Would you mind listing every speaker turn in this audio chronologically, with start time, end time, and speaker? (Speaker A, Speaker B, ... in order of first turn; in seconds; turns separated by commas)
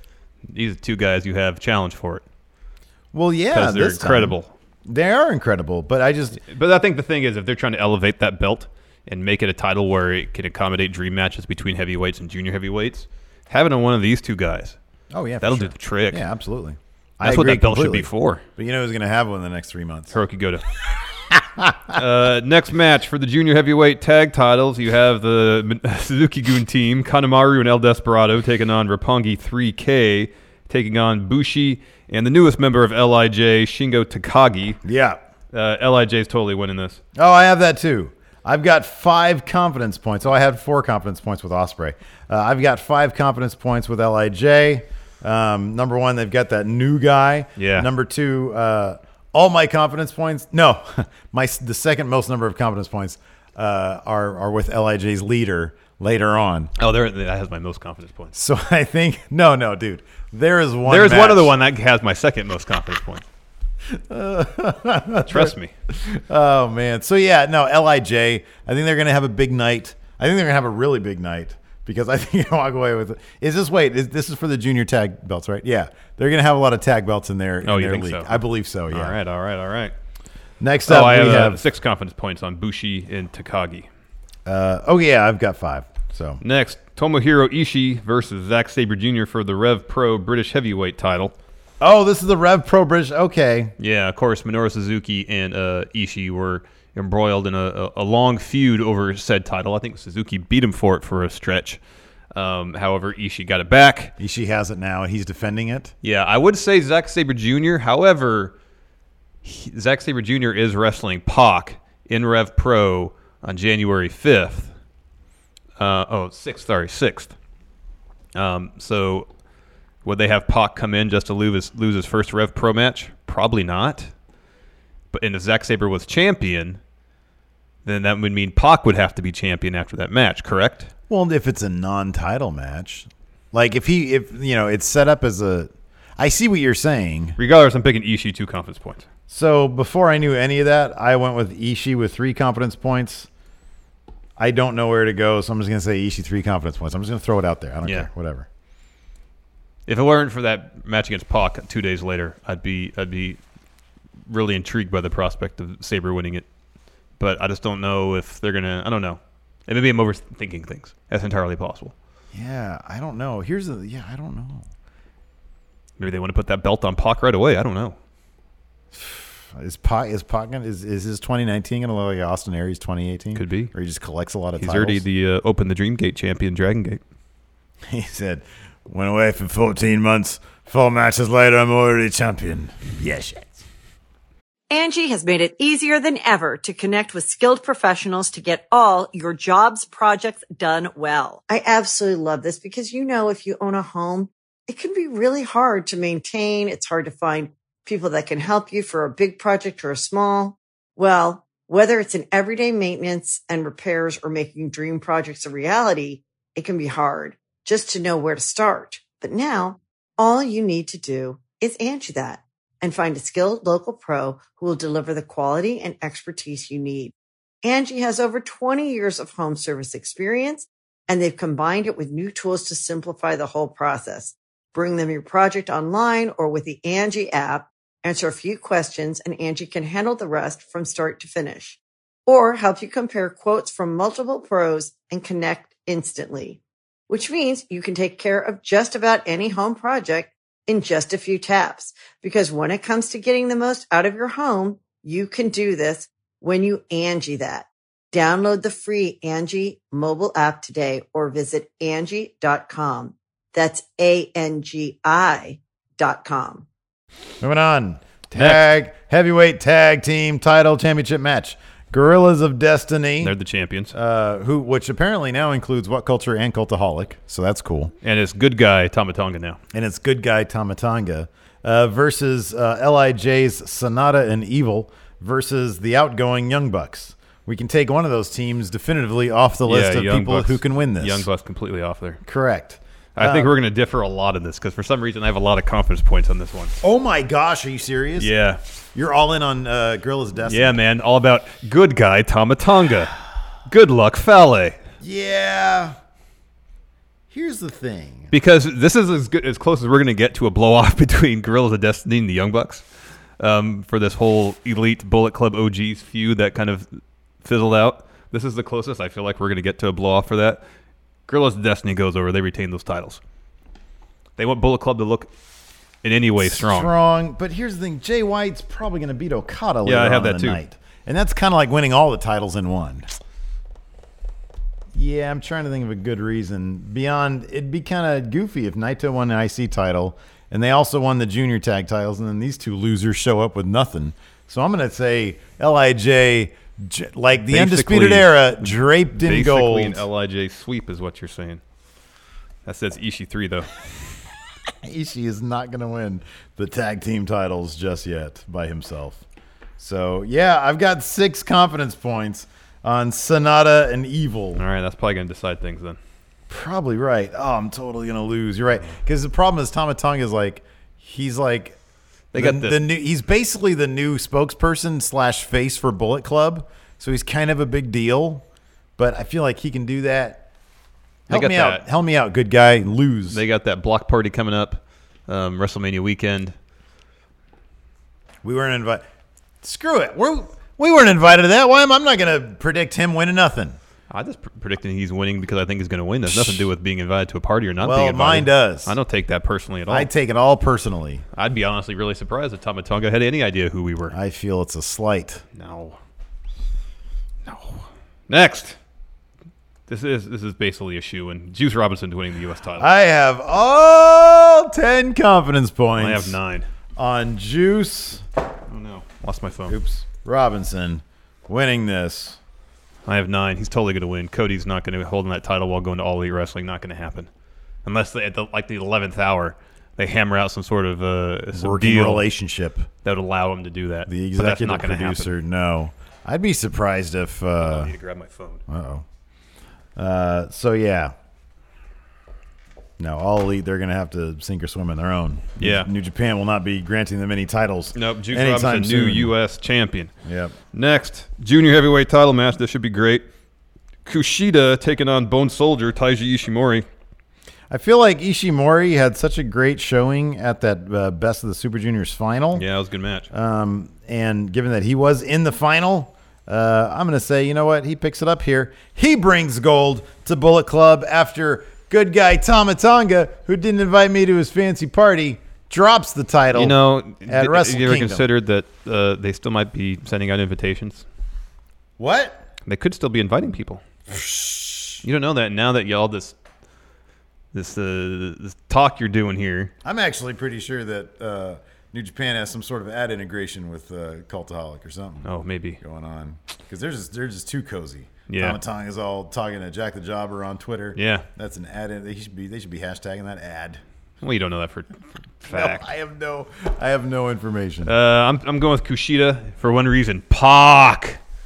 Speaker A: 0.5-2.2, Speaker B: 3.1-4.3, Speaker A: 3.5-4.5, Speaker B: 4.9-6.4, Speaker A: 6.4-14.8, Speaker B: 15.1-20.1, Speaker A: 15.4-16.2, Speaker A: 17.2-18.4, Speaker A: 20.1-20.6, Speaker B: 21.3-22.0, Speaker A: 21.9-34.8, Speaker B: 34.8-35.2, Speaker A: 35.5-37.0, Speaker B: 37.1-56.7, Speaker A: 47.6-47.9, Speaker A: 56.8-58.3, Speaker B: 58.3-61.5, Speaker A: 60.9-63.2, Speaker B: 63.9-79.2, Speaker A: 65.3-65.7, Speaker A: 77.6-79.9, Speaker B: 80.6-81.6, Speaker A: 80.9-83.9, Speaker B: 84.5-86.4, Speaker A: 86.4-91.3, Speaker B: 91.8-93.7, Speaker A: 93.8-101.8, Speaker A: 102.3-104.1, Speaker B: 104.2-105.9, Speaker A: 106.0-108.5, Speaker A: 109.4-114.7, Speaker A: 115.8-117.3, Speaker A: 118.3-119.3, Speaker A: 120.0-124.1, Speaker A: 125.1-126.8, Speaker A: 127.8-130.9, Speaker B: 131.1-137.4, Speaker A: 137.4-139.1, Speaker B: 139.3-143.3, Speaker B: 144.4-148.5, Speaker A: 149.9-153.4, Speaker A: 154.3-156.4, Speaker A: 157.2-161.9, Speaker B: 162.3-164.7, Speaker A: 166.0-167.9, Speaker B: 168.9-175.0, Speaker A: 173.3-173.7, Speaker A: 174.6-177.0, Speaker B: 177.9-183.6, Speaker C: 184.7-256.6, Speaker B: 257.4-263.3, Speaker A: 258.3-258.6, Speaker A: 263.2-263.9, Speaker B: 263.9-267.9, Speaker A: 268.0-269.6, Speaker B: 269.7-281.3, Speaker A: 279.6-282.2, Speaker B: 282.2-283.5, Speaker A: 283.1-286.8, Speaker B: 286.8-288.3, Speaker A: 288.2-288.6, Speaker B: 288.9-290.8, Speaker A: 290.4-293.2, Speaker A: 293.7-294.8, Speaker B: 295.0-295.9, Speaker B: 297.3-298.3, Speaker A: 298.3-302.8, Speaker A: 303.4-306.9, Speaker A: 307.4-310.6, Speaker A: 311.3-313.2, Speaker A: 314.4-315.3, Speaker A: 316.0-316.9, Speaker B: 316.4-323.1, Speaker A: 319.8-320.6, Speaker B: 324.9-340.0, Speaker A: 337.5-341.6, Speaker A: 342.6-343.7, Speaker B: 344.8-349.2, Speaker B: 349.8-354.6, Speaker A: 354.6-356.0, Speaker B: 356.5-361.8, Speaker A: 362.3-362.8, Speaker B: 362.3-368.4, Speaker B: 369.0-370.4, Speaker A: 371.3-371.8, Speaker B: 371.3-373.4, Speaker A: 373.3-376.5, Speaker B: 378.4-379.0, Speaker B: 379.6-383.8, Speaker A: 384.1-390.1, Speaker B: 386.2-386.7, Speaker B: 387.8-388.9, Speaker B: 389.9-391.2, Speaker A: 391.3-394.1, Speaker B: 394.1-395.4, Speaker A: 395.5-396.0, Speaker A: 397.4-398.8, Speaker A: 399.9-402.9, Speaker B: 402.8-406.4, Speaker A: 406.0-406.7, Speaker B: 406.9-408.2, Speaker A: 408.7-409.8, Speaker B: 409.7-412.4, Speaker A: 413.1-417.3, Speaker A: 417.8-422.3, Speaker B: 421.5-422.9, Speaker A: 423.0-425.3, Speaker B: 424.1-427.9, Speaker A: 427.6-428.6, Speaker B: 428.7-429.0, Speaker B: 429.9-431.1, Speaker B: 433.0-439.3, Speaker A: 435.6-435.9, Speaker A: 437.9-440.1, Speaker B: 440.2-440.6, Speaker A: 440.7-443.2, Speaker A: 444.1-446.8, Speaker B: 447.7-452.6, Speaker A: 452.5-453.3, Speaker B: 453.3-468.2, Speaker A: 466.5-471.0, Speaker B: 472.0-472.4, Speaker A: 472.6-473.8, Speaker B: 474.1-475.0, Speaker A: 475.0-476.4, Speaker A: 477.5-479.7, Speaker B: 479.8-485.2, Speaker A: 485.2-485.8, Speaker B: 485.8-493.8, Speaker A: 488.3-488.6, Speaker A: 490.9-491.2, Speaker A: 494.2-495.9, Speaker B: 495.5-497.9, Speaker A: 497.9-501.2